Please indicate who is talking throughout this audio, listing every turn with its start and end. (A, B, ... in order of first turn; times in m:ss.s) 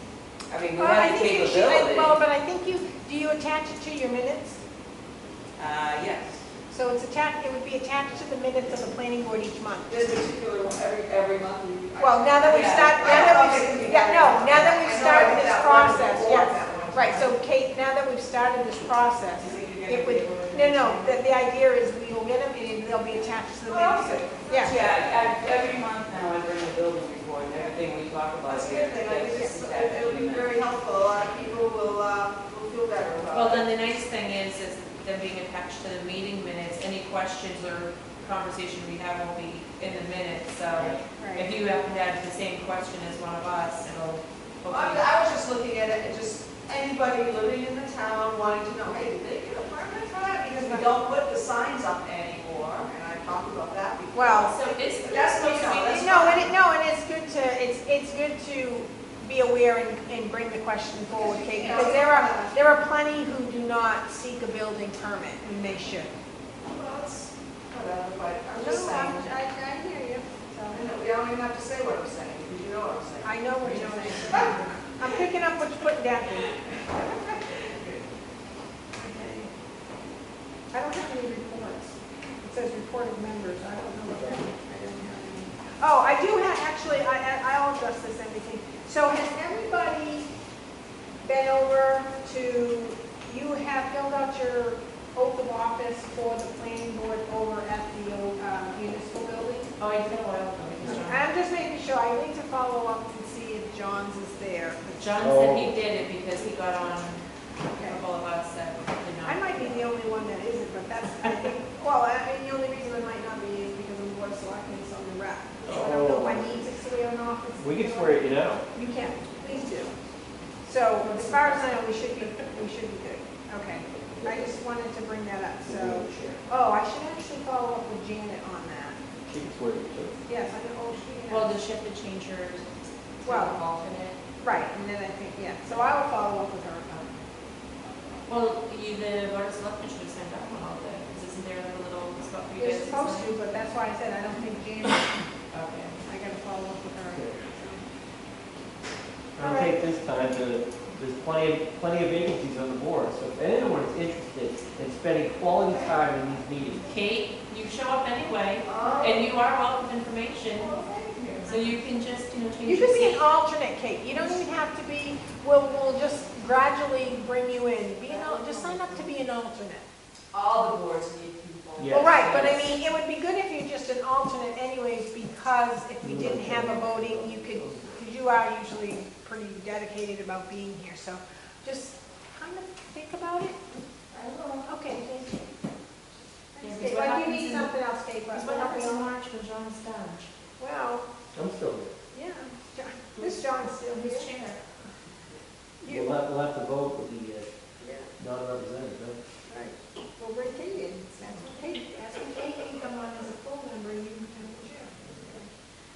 0:00.5-0:02.2 A
0:00.8-0:04.6 B
0:05.6-0:06.4 A
0:06.7-0:10.0 B
0:09.9-0:17.4 C
0:12.0-0:24.8 B
0:12.5-0:13.4 A
0:19.4-0:19.8 C
0:20.1-0:20.5 A
0:20.3-0:21.2 D
0:23.6-0:24.6 C
0:24.6-0:30.6 A
0:28.4-0:33.7 C
0:33.3-0:45.1 D
0:41.2-0:41.5 B
0:44.7-0:56.5 C
0:50.5-0:50.9 B
0:54.1-0:54.6 B
0:54.3-0:56.4 D
0:55.8-1:06.1 B
1:01.1-1:02.6 C
1:06.6-1:09.3 C
1:08.6-1:10.8 B
1:10.7-1:15.2 C
1:13.2-1:16.6 B
1:16.9-1:18.0 C
1:19.0-1:19.5 B
1:20.7-1:30.3 B
1:31.2-1:39.7 B
1:39.8-1:41.3 D
1:41.0-1:45.2 B
1:45.0-1:49.8 D
1:45.2-1:45.8 E
1:47.7-1:48.0 B
1:49.2-1:59.9 B
1:55.6-1:56.7 E
1:57.6-1:58.7 E
2:00.6-2:09.0 B
2:01.0-2:02.2 D
2:03.9-2:04.6 E
2:05.6-2:06.4 E
2:09.2-2:10.2 E
2:10.3-2:11.6 B
2:11.3-2:12.7 D
2:13.2-2:14.2 D
2:13.2-2:13.6 B
2:14.4-2:17.1 B
2:18.3-2:23.4 D
2:22.6-2:25.1 B
2:25.5-2:26.0 D
2:26.0-2:27.9 B
2:27.1-2:27.4 E
2:29.4-2:36.9 E
2:29.4-2:29.8 B
2:35.5-2:36.9 C
2:36.9-2:40.8 D
2:38.6-2:39.3 C
2:40.5-2:41.8 C
2:41.4-2:43.2 D
2:42.6-2:49.8 B
2:48.1-2:49.0 C
2:50.3-2:52.2 C
2:51.8-2:52.5 E
2:51.9-3:03.6 B
2:52.1-2:52.8 D
2:56.0-2:58.0 E
3:04.1-3:04.6 C
3:04.6-3:05.4 B
3:06.5-3:09.1 B
3:06.6-3:07.8 D
3:08.3-3:10.2 D
3:10.6-3:11.0 B
3:11.3-3:11.9 E
3:12.1-3:14.3 B
3:13.9-3:14.6 D
3:15.8-3:16.2 B
3:15.9-3:17.5 E
3:17.8-3:18.1 B
3:18.2-3:19.2 E
3:19.5-3:25.5 B
3:21.2-3:21.5 D